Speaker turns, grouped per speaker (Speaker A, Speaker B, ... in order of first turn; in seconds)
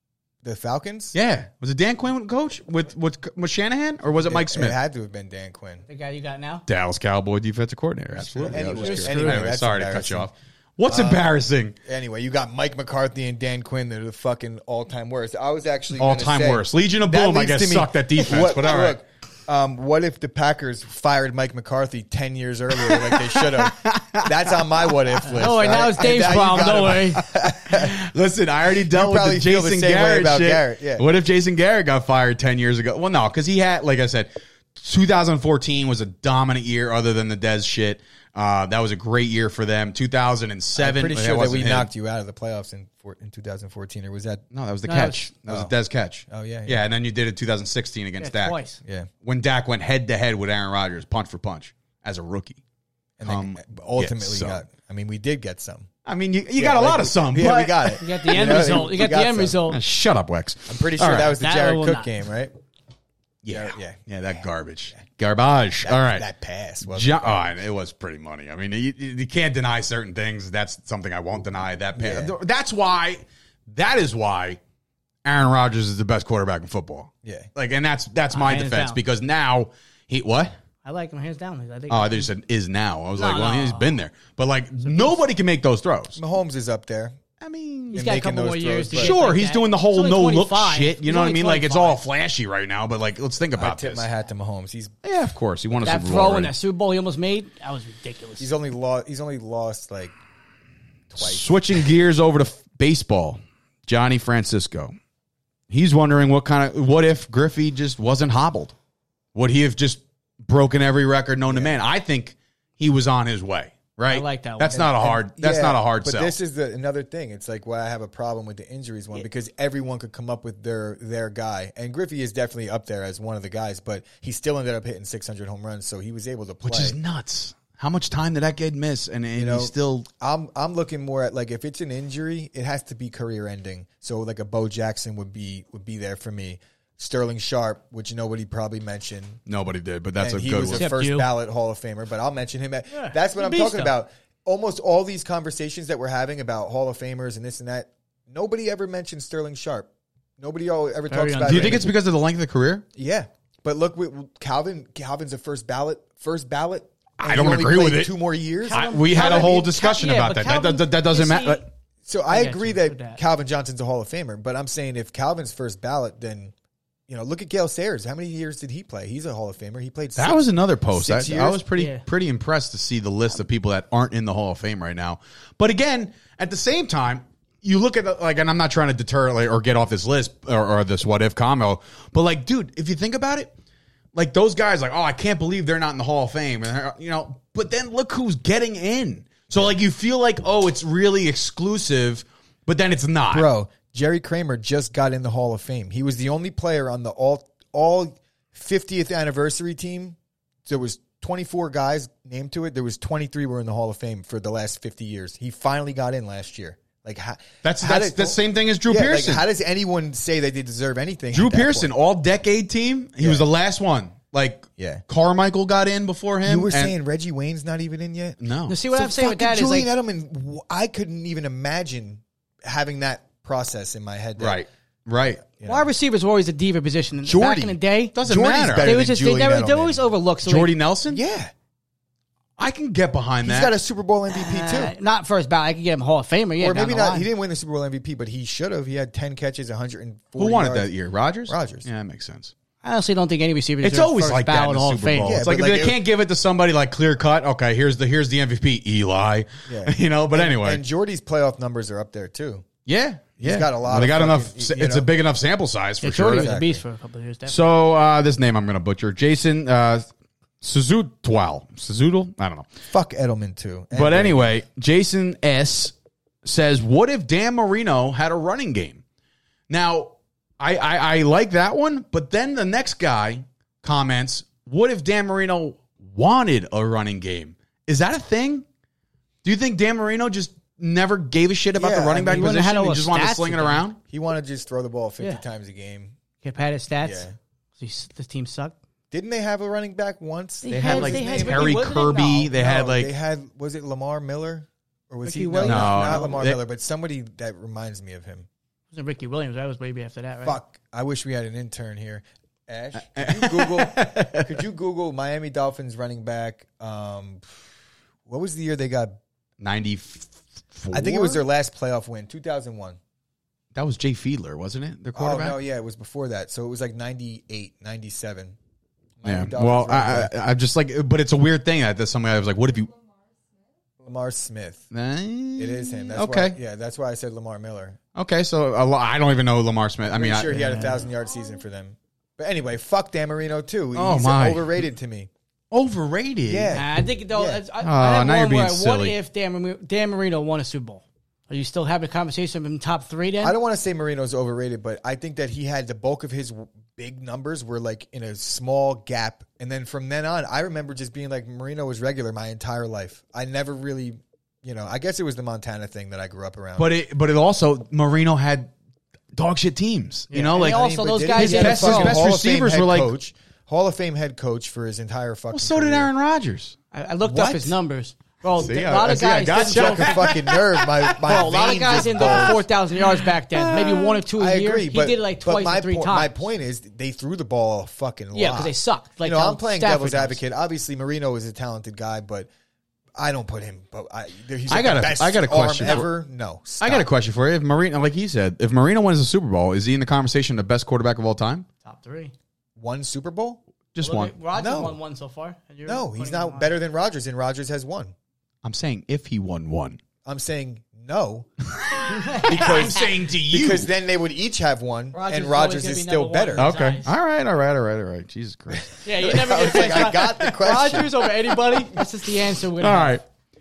Speaker A: 0.4-1.1, 4.2-5.8, 8.1-10.3, 10.9-11.2, 11.8-28.0, 28.9-31.1, 40.8-44.4, 45.5-45.7, 46.3-46.8, 53.2-55.9, 56.6-59.6, 60.7-62.5, 63.5-64.0, 65.8-67.5, 71.9-72.3, 86.2-87.2, 87.9-89.1, 93.6-95.0, 98.4-100.1, 101.1-101.8, 111.5-111.8, 114.7-127.0, 129.3-139.4, 140.2-151.9, 152.9-159.6, 162.0-166.5, 167.1-170.4, 170.9-171.6, 193.3-211.9, 213.2-213.4, 214.8-215.0, 216.4-218.4, 218.9-224.6, 225.6-225.9, 227.2-230.0, 231.1-231.5, 233.4-234.9, 236.6-240.9, 241.5-241.8, 245.2-246.0, 249.7-252.6, 253.4-255.1, 256.3-256.8, 262.9-264.5, 281.8-282.5, 284.1-286.1, 287.0-287.3, 289.1-298.5, 300.4-307.5, 308.3-309.1, 310.9-313.0, 315.1-318.6, 319.2-320.3, 324.0-324.8, 325.6-328.0, 330.1-335.3, 336.5-337.6, 343.4-356.9, 360.5-366.1, 368.7-372.6, 374.3-382.5, 383.1-387.1, 392.8-393.6, 394.5-395.0, 395.9-398.1, 400.2-401.5, 402.4-406.7, 409.2-411.2
Speaker B: 1.1-4.8, 6.7-11.8, 16.0-19.0, 22.8-24.3, 26.1-41.9, 44.5-48.6, 49.2-52.6, 53.2-54.6, 56.0-58.6, 59.7-61.4, 63.4-66.2, 66.9-74.6, 75.2-80.5, 81.9-86.2, 87.4-88.0, 88.9-94.1, 95.0-96.5, 101.2-104.9, 105.7-108.7, 109.3-116.3, 126.6-130.1, 139.5-140.9, 151.4-152.8, 157.2-158.1, 158.7-161.6, 170.2-183.5, 184.1-193.5, 207.6-209.4, 211.3-216.9, 218.4-218.8, 224.4-225.4, 228.1-228.9, 230.4-231.2, 232.6-233.7, 240.4-242.5, 243.8-250.8, 252.8-256.5, 257.4-260.1, 260.6-262.7, 263.9-269.0, 269.7-278.6, 279.4-284.0, 290.7-293.1, 295.6-296.6, 302.9-304.5, 309.6-311.4, 313.7-315.6, 319.2-322.9, 324.9-326.6, 328.1-330.9, 333.9-334.8, 335.7-336.7, 337.8-339.1, 356.8-358.7, 359.3-360.8, 361.4-363.1, 365.5-367.7, 368.5-374.2, 384.7-386.1, 386.8-391.6, 393.9-394.3, 398.6-400.0, 401.7-403.9, 406.6-410.5, 412.8-413.2
Speaker C: 5.9-6.6, 8.5-9.4, 25.3-27.2, 44.9-45.3, 48.2-48.8, 58.0-59.8, 61.2-62.1, 78.3-79.0, 80.8-82.3, 83.2-84.0, 87.9-92.0, 95.8-98.5, 114.1-114.8, 140.7-141.3, 142.9-143.9, 151.1-151.9, 158.6-161.6, 162.3-163.2, 171.8-172.0, 218.7-219.9, 225.6-228.2, 228.8-230.8, 234.3-237.3, 242.8-245.4, 256.0-257.6, 282.2-283.9, 286.4-288.7, 290.6-292.4, 295.2-296.4, 298.9-300.6, 330.5-330.9, 336.7-343.5, 360.3-362.2, 366.9-370.2, 371.2-376.3, 378.3-380.4, 391.8-392.3, 394.0-396.7, 402.1-403.1, 405.1-407.1, 409.0-413.1